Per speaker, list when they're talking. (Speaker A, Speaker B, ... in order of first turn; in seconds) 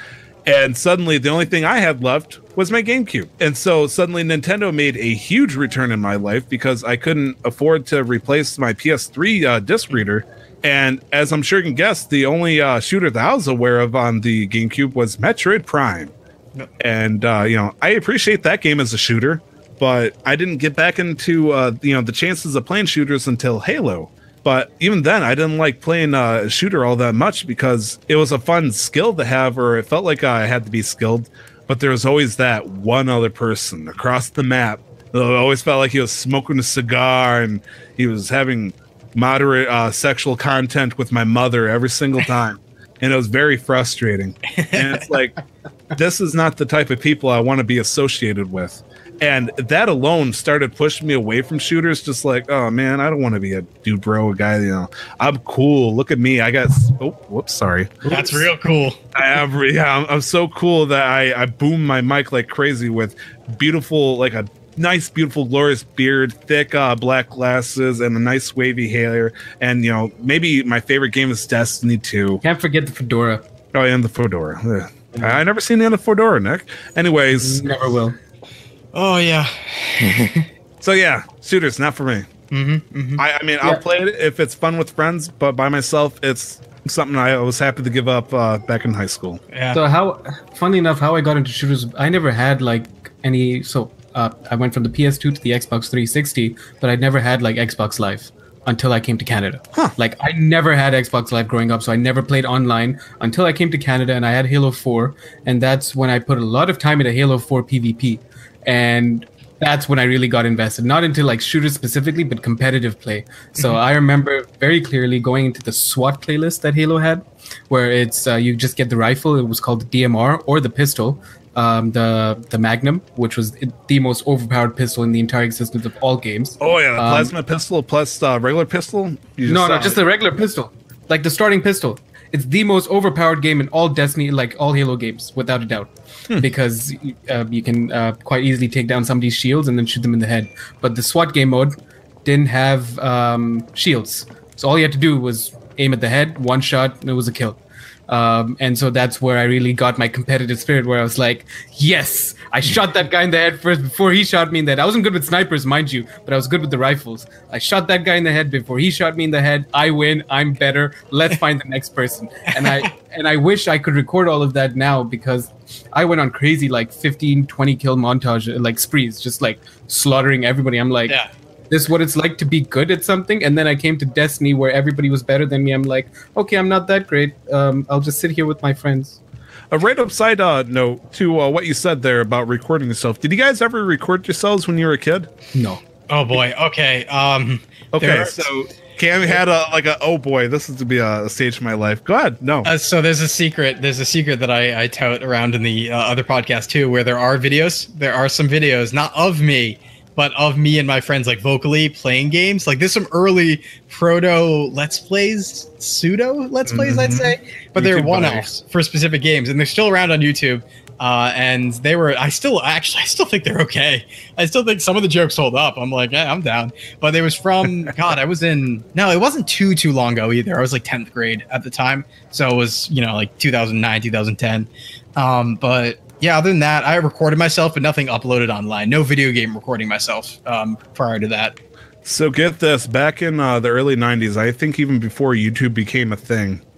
Speaker A: 0.5-16.1, 16.8-45.4, 45.9-58.1, 59.1-72.4, 73.7-77.6, 80.8-82.3, 83.2-89.4, 126.6-130.0, 179.7-185.3, 187.9-192.7, 206.7-208.5, 232.0-236.6
Speaker B: 44.5-45.0, 58.1-59.0, 78.9-80.5, 82.5-83.2, 89.5-89.8, 162.6-162.9, 186.1-188.5, 192.6-231.6
Speaker C: 58.1-58.4, 72.4-73.5, 75.1-75.4, 77.3-78.2, 89.7-127.3, 129.4-171.2, 171.7-179.2, 185.5-185.8